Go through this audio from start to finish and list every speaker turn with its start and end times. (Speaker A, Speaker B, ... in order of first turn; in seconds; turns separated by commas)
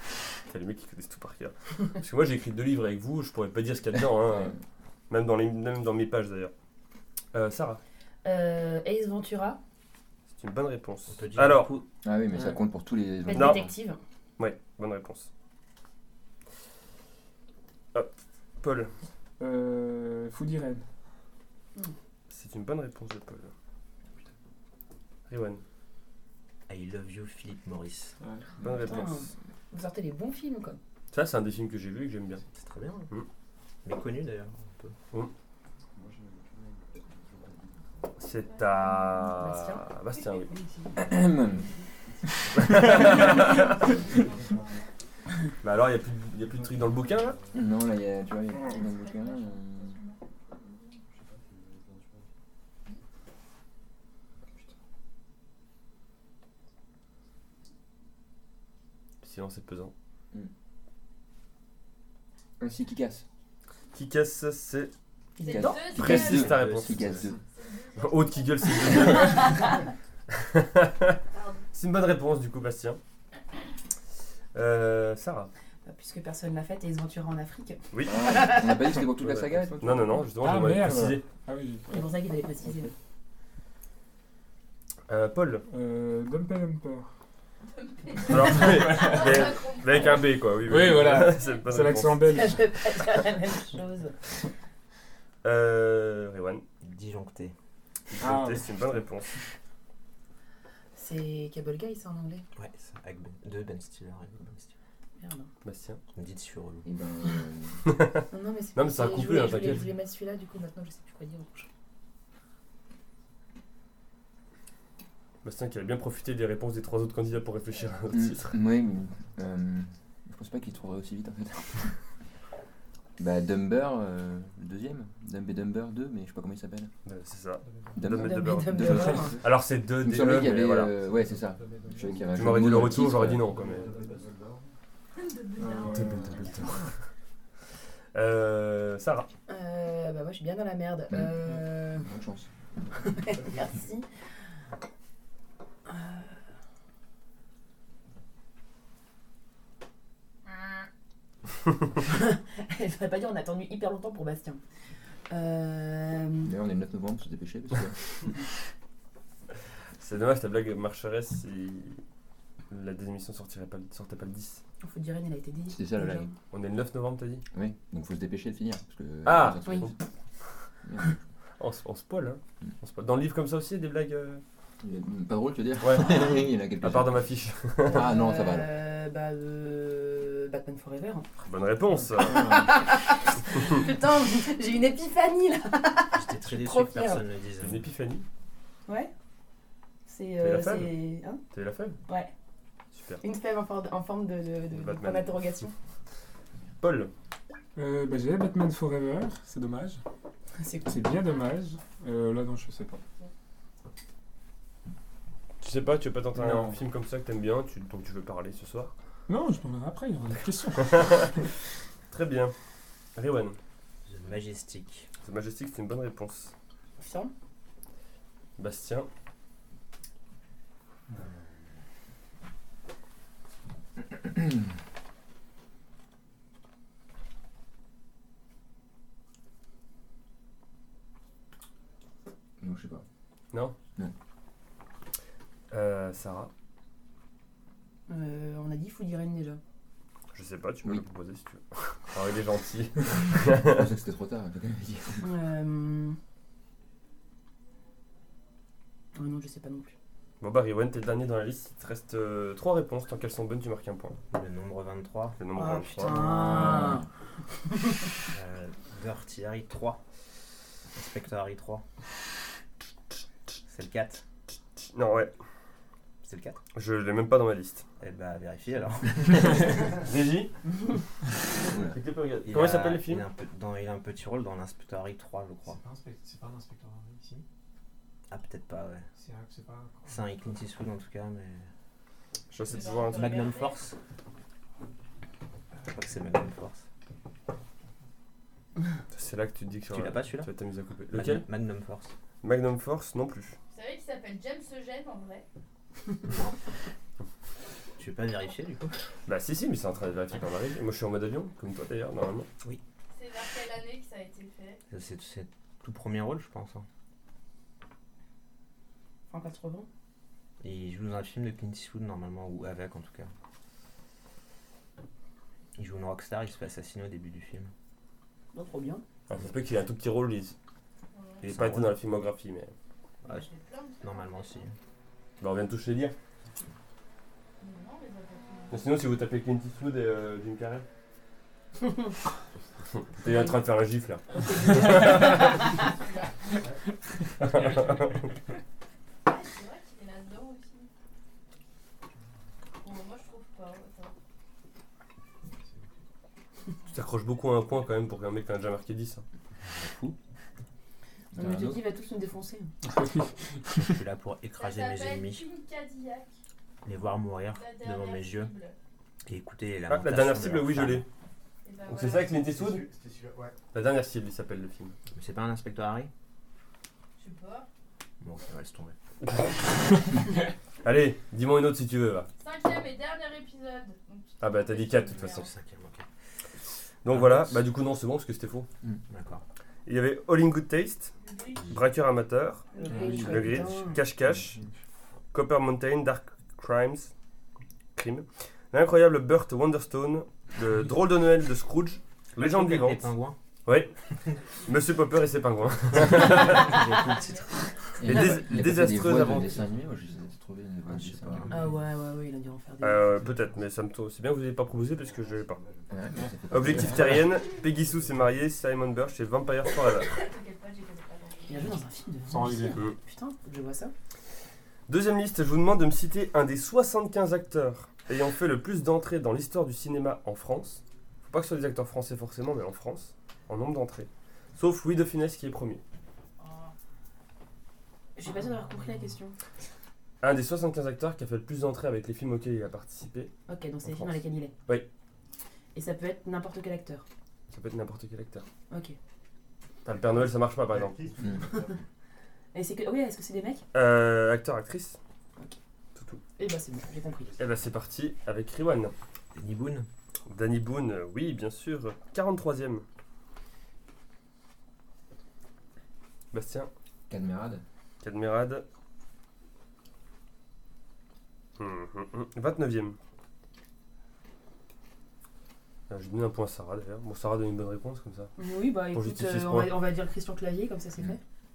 Speaker A: 0.5-4.6, Speaker A: 5.1-6.5, Speaker A: 7.3-7.8, Speaker B: 8.2-9.6, Speaker A: 10.3-11.7, Speaker C: 11.1-11.8, Speaker D: 12.0-13.7, Speaker B: 13.2-14.0, Speaker A: 13.3-13.6, Speaker A: 14.4-15.3, Speaker A: 18.6-18.9, Speaker E: 19.4-20.8, Speaker A: 22.3-23.5, Speaker A: 25.3-25.6, Speaker C: 26.7-28.1, Speaker E: 28.2-28.5, Speaker A: 28.6-29.3, Speaker B: 28.7-30.8, Speaker A: 31.1-32.4, Speaker C: 32.5-33.1, Speaker C: 33.8-35.0, Speaker F: 35.9-38.2, Speaker A: 38.2-40.5, Speaker G: 38.5-39.1, Speaker B: 39.3-41.1, Speaker D: 41.0-41.6, Speaker A: 42.5-43.8, Speaker G: 43.0-44.9, Speaker F: 44.1-44.7, Speaker A: 45.6-47.4, Speaker F: 46.4-47.6, Speaker D: 47.5-49.9, Speaker G: 48.5-51.0, Speaker F: 51.1-52.3, Speaker A: 59.2-59.9, Speaker D: 62.6-63.2, Speaker A: 63.9-64.9, Speaker B: 65.4-65.9, Speaker G: 65.4-66.5, Speaker D: 65.4-67.4, Speaker A: 65.8-67.1, Speaker C: 66.2-67.3, Speaker G: 67.4-69.5, Speaker A: 68.0-69.7, Speaker A: 70.4-71.2, Speaker G: 71.3-71.6, Speaker A: 71.7-73.0, Speaker A: 74.5-75.5, Speaker B: 75.8-78.9, Speaker A: 77.9-78.5, Speaker D: 78.0-80.2, Speaker A: 79.2-81.2, Speaker E: 80.4-82.1, Speaker B: 81.9-82.9, Speaker E: 82.6-82.9, Speaker A: 85.1-85.6, Speaker E: 85.7-87.1, Speaker G: 87.7-90.4, Speaker A: 88.3-92.3, Speaker E: 88.4-89.2, Speaker E: 90.6-92.6, Speaker G: 91.3-91.6, Speaker B: 92.2-94.2, Speaker A: 95.4-96.6, Speaker C: 96.8-97.5, Speaker A: 98.1-99.3, Speaker E: 98.2-98.7, Speaker B: 101.0-102.4, Speaker C: 102.5-104.7, Speaker B: 105.2-105.5, Speaker A: 105.6-106.0, Speaker C: 106.1-106.8, Speaker D: 106.8-107.8, Speaker A: 107.8-108.2, Speaker B: 108.3-111.7, Speaker A: 108.8-109.9, Speaker A: 115.4-118.5, Speaker D: 118.1-122.0, Speaker D: 123.2-126.9, Speaker A: 127.0-130.9, Speaker F: 127.7-128.0, Speaker D: 127.9-129.5, Speaker B: 128.1-129.4, Speaker D: 130.0-133.5, Speaker F: 130.8-134.7, Speaker A: 132.3-133.9, Speaker G: 135.1-136.5, Speaker E: 135.6-136.4, Speaker A: 135.9-136.9, Speaker A: 138.1-139.3, Speaker B: 139.5-142.1, Speaker D: 141.8-142.5, Speaker B: 143.0-144.1, Speaker B: 145.9-146.4, Speaker B: 152.1-154.6, Speaker B: 155.3-156.5, Speaker D: 156.4-158.0, Speaker A: 160.0-162.0, Speaker A: 162.7-164.6, Speaker B: 164.8-166.3, Speaker D: 165.7-166.3, Speaker A: 166.5-167.4, Speaker D: 167.5-169.9, Speaker A: 169.2-170.0, Speaker D: 170.8-171.2, Speaker A: 171.6-174.4, Speaker D: 174.8-177.2, Speaker A: 175.8-178.1, Speaker D: 177.8-178.7, Speaker B: 177.9-181.2, Speaker A: 181.4-182.5, Speaker B: 182.2-187.2, Speaker C: 186.1-187.9, Speaker A: 187.6-188.2, Speaker B: 188.9-189.1, Speaker B: 190.1-191.4, Speaker A: 190.4-190.9, Speaker A: 191.5-192.0, Speaker B: 192.1-192.3, Speaker A: 192.9-193.2, Speaker B: 193.2-195.7, Speaker A: 194.7-195.3, Speaker A: 196.8-197.1, Speaker E: 197.8-200.0, Speaker B: 200.6-201.2, Speaker E: 200.8-203.0, Speaker A: 205.6-208.9, Speaker E: 206.3-206.8, Speaker E: 209.3-211.3, Speaker A: 210.8-211.3, Speaker A: 212.1-212.5, Speaker A: 213.2-213.6, Speaker C: 214.1-215.1, Speaker A: 215.2-216.5, Speaker B: 217.0-217.3, Speaker A: 218.6-219.1, Speaker D: 232.6-233.0, Speaker A: 235.7-236.5, Speaker B: 238.1-239.6, Speaker A: 240.3-243.9, Speaker D: 243.6-245.3, Speaker B: 245.2-246.2, Speaker B: 249.1-249.9, Speaker A: 250.4-254.2, Speaker C: 254.3-255.4, Speaker A: 255.4-256.3, Speaker B: 255.5-257.0, Speaker D: 256.2-257.0, Speaker B: 257.6-258.1, Speaker C: 258.3-260.0, Speaker C: 260.9-261.8, Speaker C: 263.7-264.2, Speaker A: 264.9-265.3, Speaker C: 266.2-266.6, Speaker A: 266.7-267.8, Speaker C: 268.0-269.9, Speaker A: 269.9-270.5, Speaker D: 271.6-272.0, Speaker A: 271.7-273.3, Speaker C: 272.4-275.8, Speaker F: 275.6-277.4, Speaker C: 278.3-279.1, Speaker F: 279.1-280.3, Speaker C: 280.1-281.7, Speaker A: 282.5-283.5, Speaker G: 282.7-283.9, Speaker C: 283.1-283.9, Speaker C: 285.9-286.8, Speaker A: 289.1-291.4, Speaker C: 289.9-290.5, Speaker C: 291.1-292.1, Speaker A: 292.4-293.6, Speaker G: 293.7-295.4, Speaker C: 298.0-299.0, Speaker A: 299.3-302.5, Speaker G: 303.1-304.8, Speaker C: 304.9-306.9, Speaker B: 309.3-309.9, Speaker C: 310.6-313.3, Speaker C: 315.8-317.7, Speaker B: 318.5-319.0, Speaker A: 319.3-320.6, Speaker G: 321.1-321.5, Speaker A: 321.4-322.7, Speaker C: 321.5-321.9, Speaker C: 323.2-323.5, Speaker G: 323.3-324.7, Speaker C: 324.0-324.7, Speaker A: 325.4-326.1, Speaker G: 327.6-328.8, Speaker A: 328.7-330.8, Speaker A: 333.1-335.7, Speaker B: 334.3-335.1, Speaker G: 335.0-336.3, Speaker A: 337.4-338.3, Speaker G: 339.2-340.9, Speaker G: 342.8-344.1, Speaker F: 345.6-345.9, Speaker A: 346.9-349.2, Speaker D: 349.6-350.1, Speaker B: 351.3-352.7, Speaker D: 351.4-351.8, Speaker E: 352.8-353.9, Speaker C: 353.7-355.4, Speaker G: 354.5-356.3, Speaker C: 356.8-358.5, Speaker G: 357.5-358.7, Speaker C: 359.2-361.0, Speaker A: 359.9-361.0, Speaker G: 361.6-362.4, Speaker A: 361.9-362.9, Speaker F: 362.3-363.6, Speaker A: 363.7-364.9, Speaker C: 365.1-366.1, Speaker G: 367.2-367.7, Speaker C: 368.2-368.9, Speaker A: 369.2-369.6, Speaker A: 370.8-372.3, Speaker G: 372.4-375.5, Speaker A: 374.4-375.5, Speaker C: 374.9-376.1, Speaker A: 377.0-378.7, Speaker C: 377.1-377.5, Speaker C: 379.1-379.4, Speaker A: 379.9-381.1, Speaker G: 381.2-381.7, Speaker A: 381.6-384.6, Speaker B: 382.7-384.0, Speaker E: 382.8-383.8, Speaker A: 385.3-387.1, Speaker A: 387.9-393.1, Speaker C: 392.4-393.4, Speaker A: 393.6-393.9, Speaker A: 394.6-396.9, Speaker C: 396.1-397.4, Speaker G: 396.9-397.5, Speaker D: 398.0-401.6, Speaker A: 398.0-399.6, Speaker C: 400.9-401.6, Speaker B: 401.5-403.3, Speaker A: 402.8-405.6, Speaker F: 403.2-403.6, Speaker F: 404.7-406.6, Speaker D: 405.9-407.3, Speaker A: 406.5-410.1, Speaker F: 407.2-408.5, Speaker G: 409.8-411.7, Speaker B: 411.5-413.9, Speaker E: 412.3-412.8, Speaker A: 414.9-425.8, Speaker G: 426.4-426.7, Speaker B: 428.2-429.3, Speaker A: 430.2-433.3, Speaker B: 433.5-434.5, Speaker A: 433.8-434.9, Speaker B: 435.7-437.0, Speaker A: 437.5-438.4, Speaker B: 438.7-439.0, Speaker A: 439.8-441.1, Speaker F: 440.6-441.8, Speaker D: 441.2-441.4, Speaker B: 442.5-443.6, Speaker A: 443.7-445.0, Speaker A: 445.9-446.2, Speaker B: 446.4-447.3, Speaker A: 447.4-448.9, Speaker C: 449.3-449.9, Speaker A: 450.3-452.8, Speaker A: 456.3-456.7, Speaker D: 457.1-457.6, Speaker A: 458.0-458.6, Speaker A: 461.6-463.0, Speaker A: 465.9-468.3, Speaker B: 468.4-471.2, Speaker A: 468.9-469.7